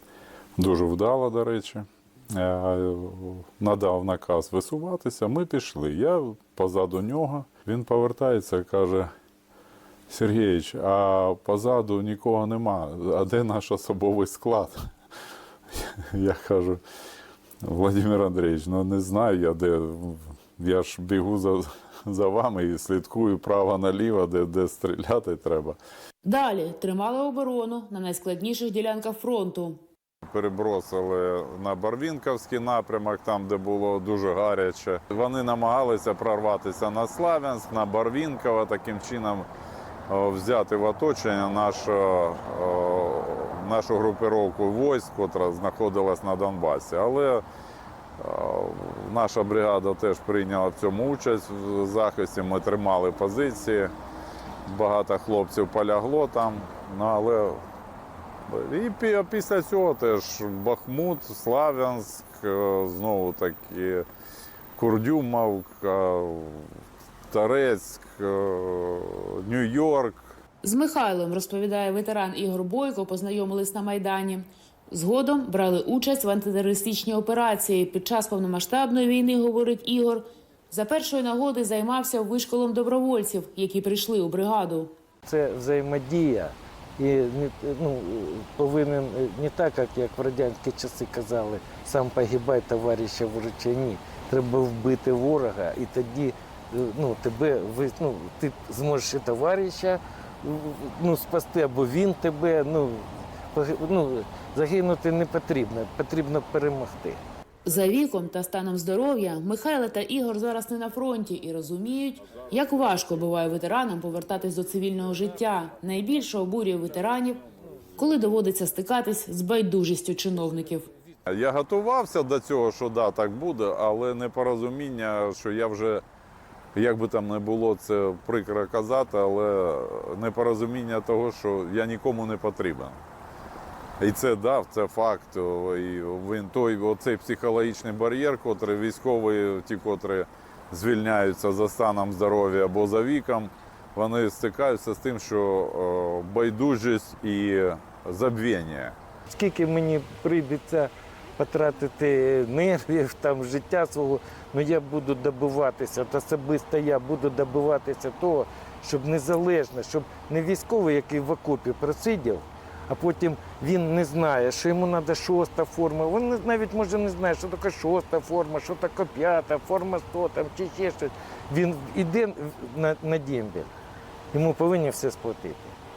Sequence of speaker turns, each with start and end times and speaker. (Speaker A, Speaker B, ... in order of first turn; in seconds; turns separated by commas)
Speaker A: 0.6-9.1, Speaker A: 10.1-14.8, Speaker A: 15.8-16.8, Speaker A: 17.6-25.8, Speaker B: 26.2-29.8, Speaker A: 30.3-39.5, Speaker A: 40.1-47.4, Speaker A: 48.2-53.9, Speaker A: 54.7-57.6, Speaker A: 58.5-64.1, Speaker A: 64.8-66.7, Speaker A: 67.3-70.3, Speaker B: 70.6-84.9, Speaker C: 85.3-107.2, Speaker B: 107.6-117.4, Speaker B: 118.0-120.9, Speaker A: 121.3-126.0, Speaker A: 126.7-133.0, Speaker A: 134.0-149.0, Speaker C: 149.3-173.7, Speaker C: 174.3-175.8